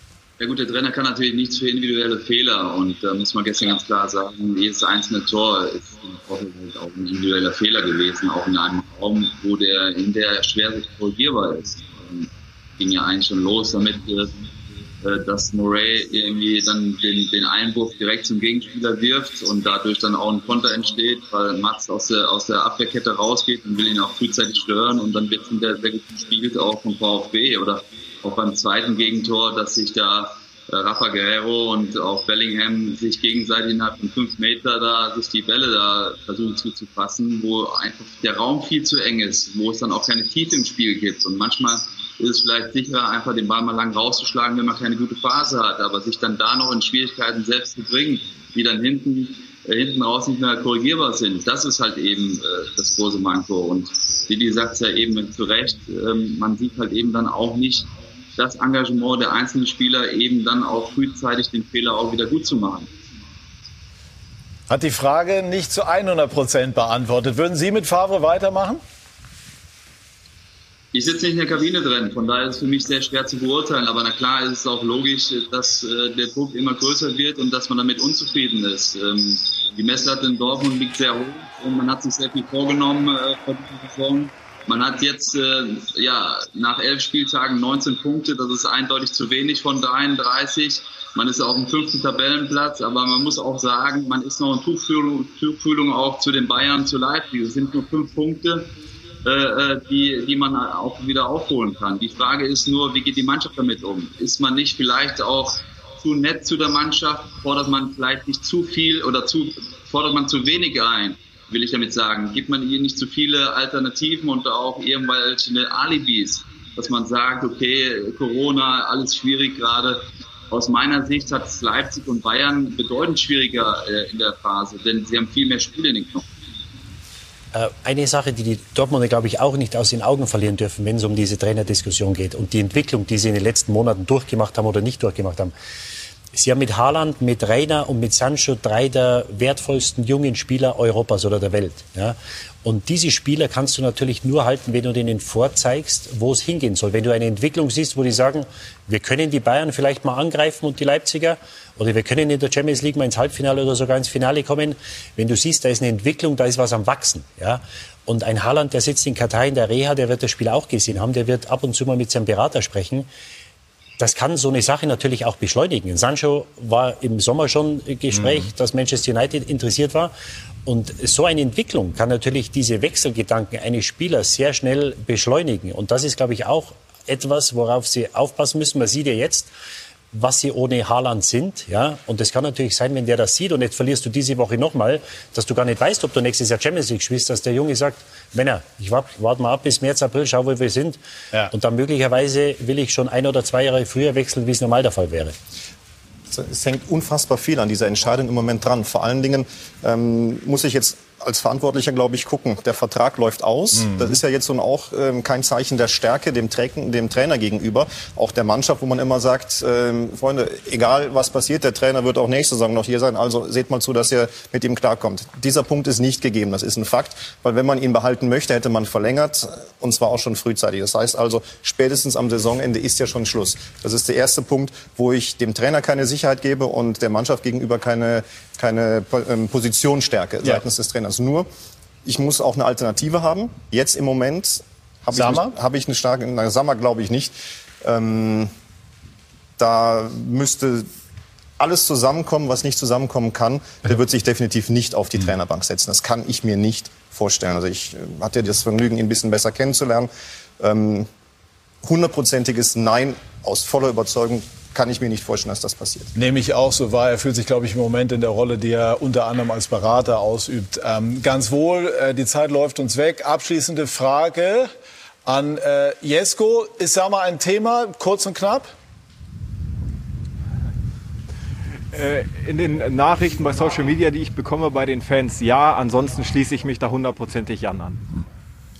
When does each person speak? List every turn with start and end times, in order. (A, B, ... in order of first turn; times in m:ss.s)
0:00.4-0:14.3 A
0:15.0-1:02.9 A
1:04.7-1:08.8 B
1:10.9-1:38.7 A
1:39.2-2:06.2 A
2:07.5-2:15.5 C
2:16.3-2:43.1 C
2:44.0-2:50.1 C
2:48.1-2:48.4 B
2:50.6-2:59.5 C
3:00.1-3:11.0 C
3:11.5-3:15.3 C
3:16.3-3:51.4 D
3:23.7-3:24.2 B
3:52.0-3:58.5 D
3:55.1-3:55.5 B
3:59.6-4:00.9 D
4:01.6-4:10.1 D
4:10.6-4:11.1 D
4:11.8-4:16.1 D
4:16.1-4:24.7 B
4:25.2-4:28.7 B
4:31.9-4:38.0 E